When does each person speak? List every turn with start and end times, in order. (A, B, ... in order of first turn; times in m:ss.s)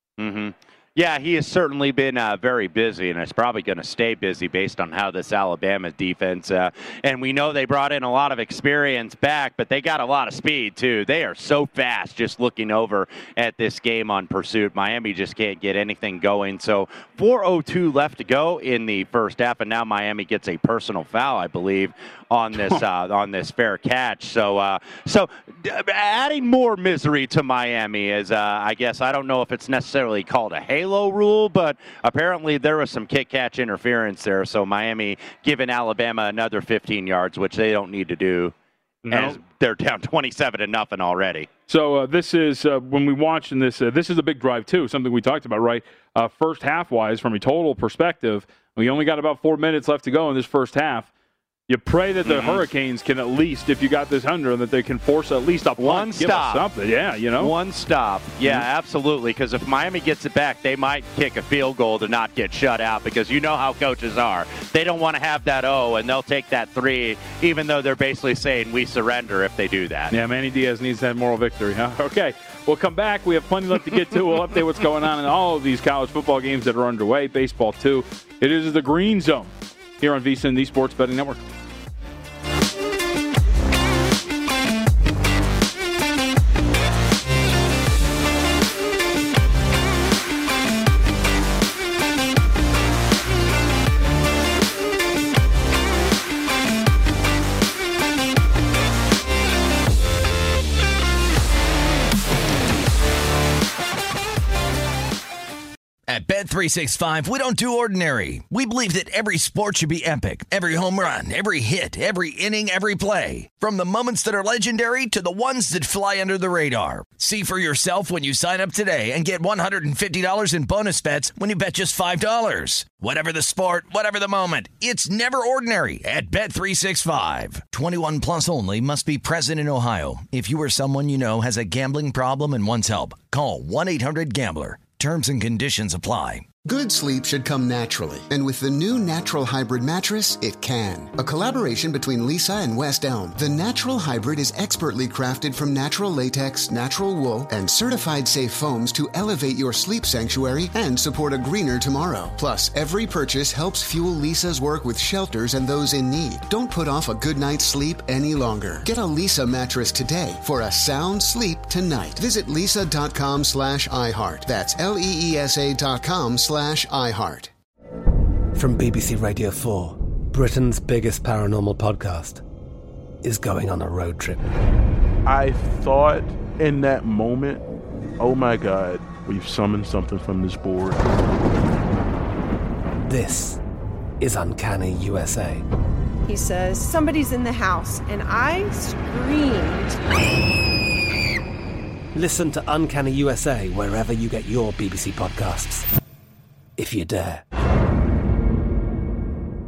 0:00.2-0:38.5 A
0:22.6-0:22.8 B
0:39.0-0:39.4 B
0:39.1-0:41.5 A
0:41.7-0:51.1 B
0:51.7-0:57.5 B
0:52.2-0:52.6 A
0:55.8-0:56.6 A
0:57.4-1:10.1 A
1:10.1-1:19.5 B
1:20.0-1:21.4 B
1:46.1-2:16.4 C
2:16.6-2:47.5 D
2:48.5-2:52.4 E
2:53.2-2:54.4 E
2:55.2-2:57.6 F
2:58.2-3:01.0 F
3:03.0-3:03.6 E
3:04.2-3:05.6 E
3:06.2-3:10.0 G
3:12.1-3:15.9 E
3:16.8-3:17.4 E